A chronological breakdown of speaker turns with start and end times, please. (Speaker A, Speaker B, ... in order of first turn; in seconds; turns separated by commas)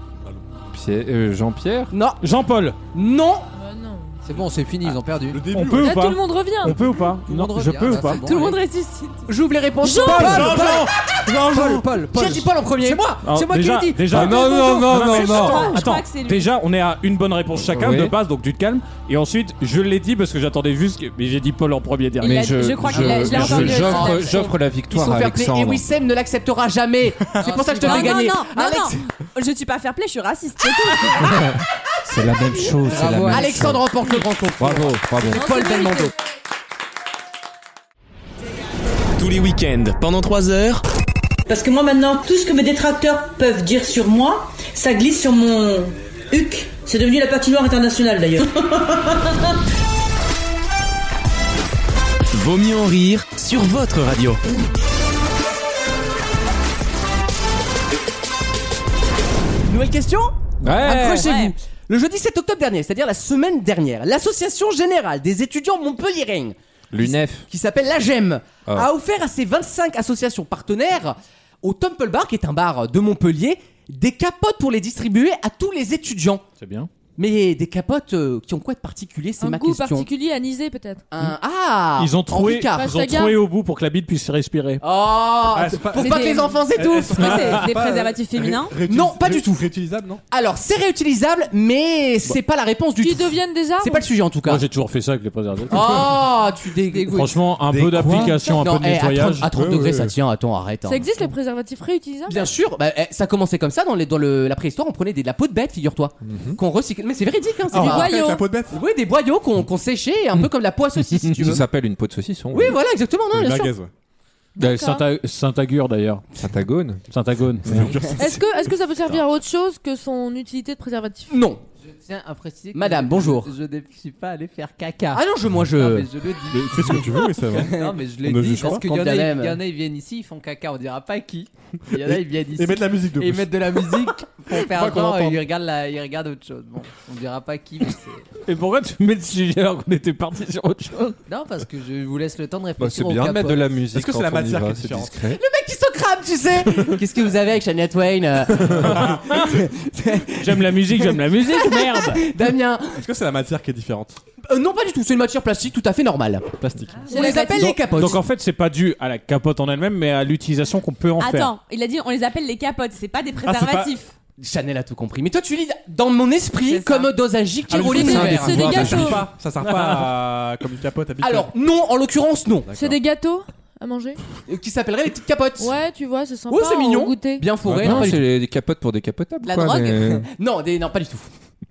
Speaker A: 0.7-1.9, Speaker B: 1.9-2.2, Speaker C: 2.2-2.8, Speaker B: 2.9-3.5, Speaker D: 3.5-4.2, Speaker E: 4.2-5.4, Speaker F: 5.2-6.0, Speaker C: 5.5-8.2, Speaker D: 5.8-6.8, Speaker E: 7.2-8.6, Speaker G: 8.2-9.3, Speaker B: 9.3-11.1, Speaker D: 9.8-10.6, Speaker C: 10.1-10.9, Speaker F: 10.2-12.3, Speaker E: 11.4-12.4, Speaker B: 11.7-14.4, Speaker C: 13.2-23.9, Speaker A: 14.1-15.8, Speaker G: 14.4-16.5, Speaker A: 17.7-18.1, Speaker G: 22.2-24.5, Speaker A: 22.2-25.8, Speaker B: 23.9-29.0, Speaker E: 27.4-28.1, Speaker G: 27.5-31.4, Speaker A: 32.0-33.9, Speaker E: 32.9-33.5, Speaker B: 33.3-36.1, Speaker A: 34.6-35.5, Speaker D: 35.3-36.1, Speaker H: 39.2-40.8, Speaker I: 41.5-49.5, Speaker H: 52.3-54.4, Speaker B: 59.7-76.4, Speaker A: 60.6-61.3, Speaker G: 61.1-61.5, Speaker A: 66.9-67.5, Speaker C: 76.6-76.9, Speaker B: 77.2-80.1, Speaker D: 79.4-81.0, Speaker B: 81.1-82.9, Speaker C: 82.0-84.8, Speaker D: 82.7-83.4, Speaker B: 84.8-87.7, Speaker F: 85.5-90.2, Speaker G: 86.0-88.8, Speaker B: 88.9-89.7, Speaker B: 90.3-94.6, Speaker D: 93.0-94.1, Speaker C: 94.4-96.2, Speaker B: 95.7-97.3, Speaker C: 97.0-99.5, Speaker F: 97.7-98.6, Speaker B: 98.1-101.1, Speaker F: 99.5-100.2, Speaker D: 100.9-102.5, Speaker B: 102.3-111.6, Speaker A: 106.3-106.6, Speaker F: 107.7-108.8, Speaker D: 107.8-108.5, Speaker A: 111.3-112.8, Speaker B: 112.5-113.7, Speaker F: 113.3-113.9, Speaker D: 114.6-115.0, Speaker C: 114.6-116.2, Speaker A: 116.4-117.0, Speaker C: 117.1-117.9, Speaker F: 117.7-118.4, Speaker A: 117.7-117.9, Speaker D: 118.2-121.4, Speaker B: 121.3-121.6, Speaker E: 121.8-138.2, Speaker B: 122.7-123.5, Speaker B: 125.1-126.1, Speaker F: 126.5-128.9, Speaker B: 128.6-129.6, Speaker F: 131.9-135.4, Speaker C: 138.4-141.2, Speaker E: 141.3-143.7, Speaker A: 142.8-145.4, Speaker F: 143.9-145.2, Speaker B: 145.3-153.0, Speaker F: 148.8-149.2, Speaker C: 150.4-152.3, Speaker F: 152.9-154.2, Speaker B: 154.5-156.5, Speaker F: 156.6-157.2, Speaker B: 157.1-158.2, Speaker D: 157.1-157.7, Speaker G: 157.1-157.6, Speaker C: 157.6-161.5, Speaker G: 161.2-164.1, Speaker F: 163.4-164.0, Speaker B: 164.4-169.1, Speaker G: 166.6-167.1, Speaker F: 167.7-171.5, Speaker D: 167.9-169.3, Speaker A: 167.9-169.2, Speaker C: 169.6-170.1, Speaker B: 171.2-172.7, Speaker F: 172.7-173.0, Speaker D: 172.7-174.2, Speaker B: 174.5-175.8, Speaker D: 175.6-177.5, Speaker B: 176.5-178.2, Speaker F: 177.6-178.1, Speaker A: 177.8-180.3, Speaker B: 179.5-181.3